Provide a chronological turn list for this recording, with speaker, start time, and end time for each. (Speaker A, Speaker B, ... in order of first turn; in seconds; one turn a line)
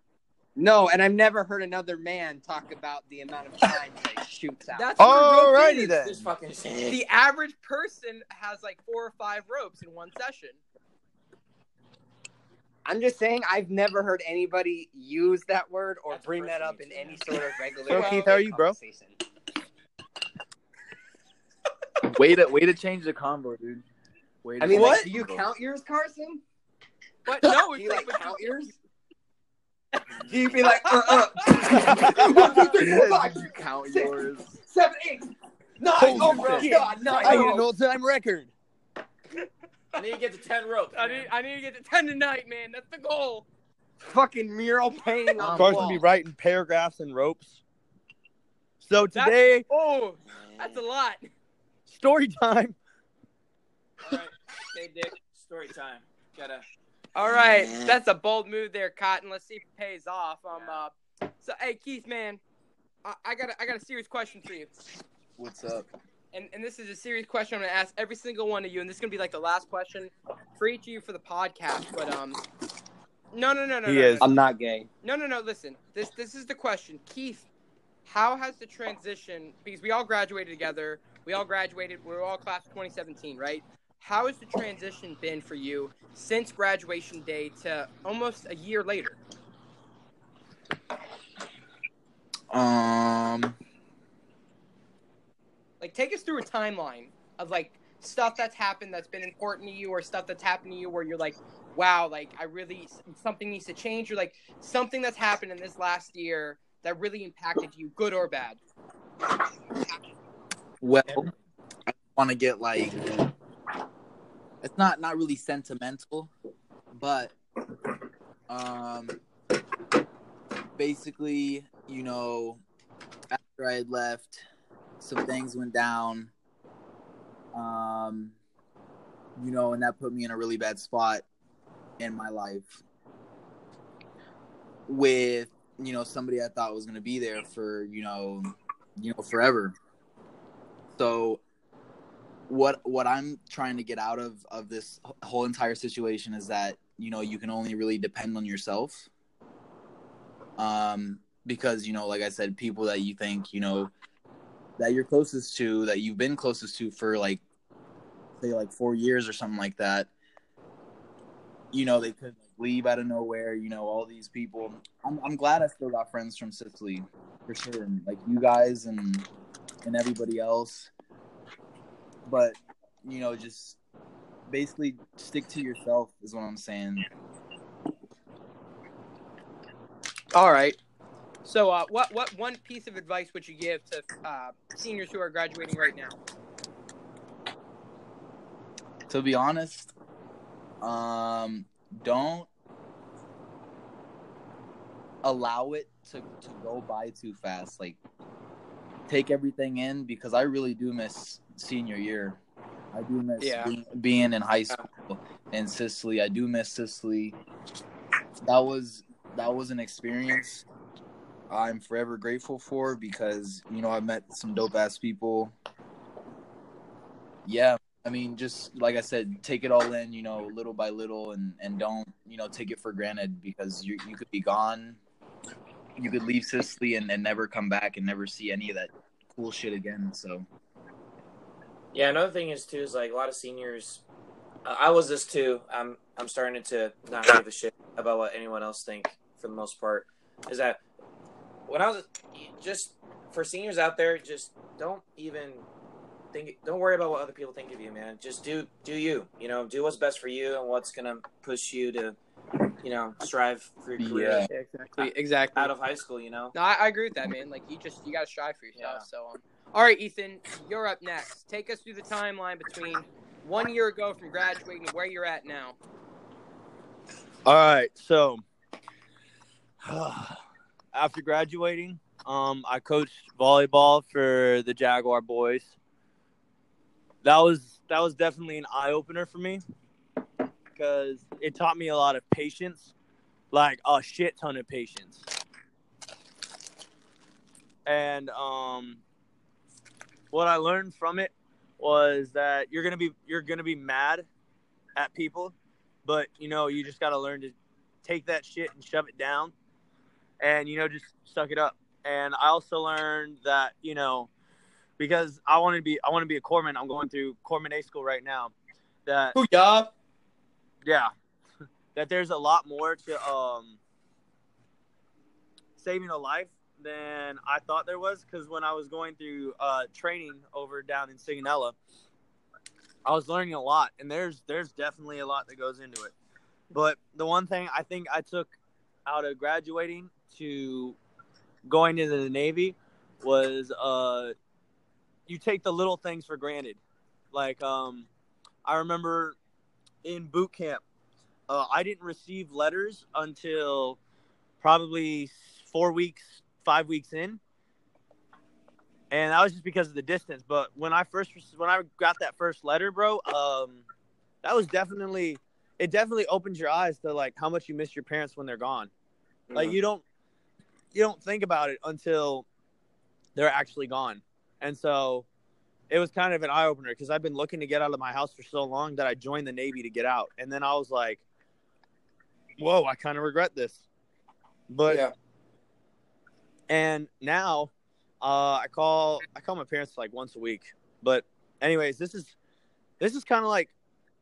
Speaker A: 0.6-4.9
Speaker B: 4.7-6.0
Speaker C: 5.0-6.2
Speaker D: 6.0-7.0
Speaker B: 6.8-10.6
Speaker A: 12.8-19.2
Speaker D: 16.1-17.4
Speaker C: 17.9-18.8
Speaker B: 17.9-18.3
Speaker E: 22.0-23.8
Speaker E: 24.4-25.5
Speaker A: 24.6-26.4
Speaker C: 24.7-25.1
Speaker B: 27.2-28.7
Speaker A: 27.4-28.7
Speaker A: 30.2-35.3
Speaker B: 31.1-31.8
Speaker C: 31.7-33.2
Speaker E: 32.3-34.5
Speaker D: 35.8-37.5
Speaker A: 36.0-37.7
Speaker C: 36.0-38.5
Speaker D: 39.9-41.3
Speaker B: 40.9-43.5
Speaker A: 44.0-46.0
Speaker E: 45.4-46.0
Speaker C: 45.5-47.6
Speaker C: 48.8-49.6
Speaker B: 49.1-51.3
Speaker C: 51.9-52.8
Speaker D: 54.0-56.6
Speaker B: 57.1-62.4
Speaker D: 60.5-60.8
Speaker B: 63.0-64.7
Speaker E: 65.4-65.9
Speaker B: 66.3-72.4
Speaker B: 73.3-74.3
Speaker C: 73.8-74.2
Speaker A: 74.2-74.9
Speaker B: 75.0-77.5
Speaker B: 78.0-89.2
Speaker E: 92.5-93.5
Speaker B: 95.8-108.6
Speaker E: 110.8-111.3
Speaker E: 111.9-113.1
Speaker E: 114.6-116.3
Speaker E: 116.9-117.3
Speaker E: 118.5-119.2
Speaker E: 120.8-122.6
Speaker E: 123.3-124.4
Speaker E: 125.0-126.3
Speaker E: 127.5-128.3
Speaker E: 129.4-131.2
Speaker E: 132.0-132.8
Speaker E: 134.9-139.8
Speaker E: 140.9-141.4
Speaker E: 142.5-149.1
Speaker E: 150.6-153.9
Speaker E: 154.8-157.4
Speaker E: 158.4-160.1
Speaker E: 161.7-169.3
Speaker E: 169.8-170.9
Speaker E: 172.2-173.8
Speaker E: 174.5-177.1
Speaker B: 180.3-180.8
Speaker B: 181.4-186.2
Speaker E: 189.1-189.9
Speaker E: 190.8-192.5
Speaker E: 195.2-198.0
Speaker E: 199.1-202.4
Speaker E: 202.9-207.4
Speaker B: 203.4-203.7
Speaker E: 208.4-210.6
Speaker E: 211.5-215.5
Speaker E: 217.4-225.0
Speaker E: 226.0-230.4
Speaker D: 231.9-234.0
Speaker D: 234.6-240.8
Speaker D: 241.7-245.7
Speaker D: 246.3-252.2
Speaker D: 252.8-256.5
Speaker E: 254.0-254.5
Speaker B: 254.5-255.7
Speaker B: 256.5-265.8
Speaker D: 258.8-259.0
Speaker C: 267.4-268.4
Speaker C: 269.8-270.4
Speaker C: 270.9-275.7
Speaker C: 277.2-279.6
Speaker C: 280.7-282.9
Speaker C: 283.5-285.2
Speaker C: 287.9-289.0
Speaker C: 290.3-294.3
Speaker C: 294.9-295.5
Speaker C: 296.0-299.5
Speaker C: 300.4-304.3
Speaker C: 305.0-308.5
Speaker C: 309.1-309.4
Speaker B: 309.3-309.9
Speaker C: 310.8-311.1
Speaker C: 311.9-313.8
Speaker C: 315.8-321.8
Speaker C: 323.0-326.1
Speaker C: 326.7-328.5
Speaker C: 329.1-331.0
Speaker C: 331.6-334.3
Speaker C: 335.3-336.8
Speaker C: 337.3-338.1
Speaker C: 338.6-339.4
Speaker C: 340.0-340.8
Speaker C: 341.5-344.0
Speaker C: 344.6-347.4
Speaker C: 349.1-353.8
Speaker C: 354.4-358.9
Speaker D: 359.5-359.8
Speaker C: 359.5-360.0
Speaker C: 360.9-362.4
Speaker C: 363.3-365.2
Speaker C: 365.9-371.2
Speaker C: 372.6-373.8
Speaker C: 374.7-375.1
Speaker C: 376.7-377.7
Speaker C: 378.2-382.4
Speaker C: 383.0-383.7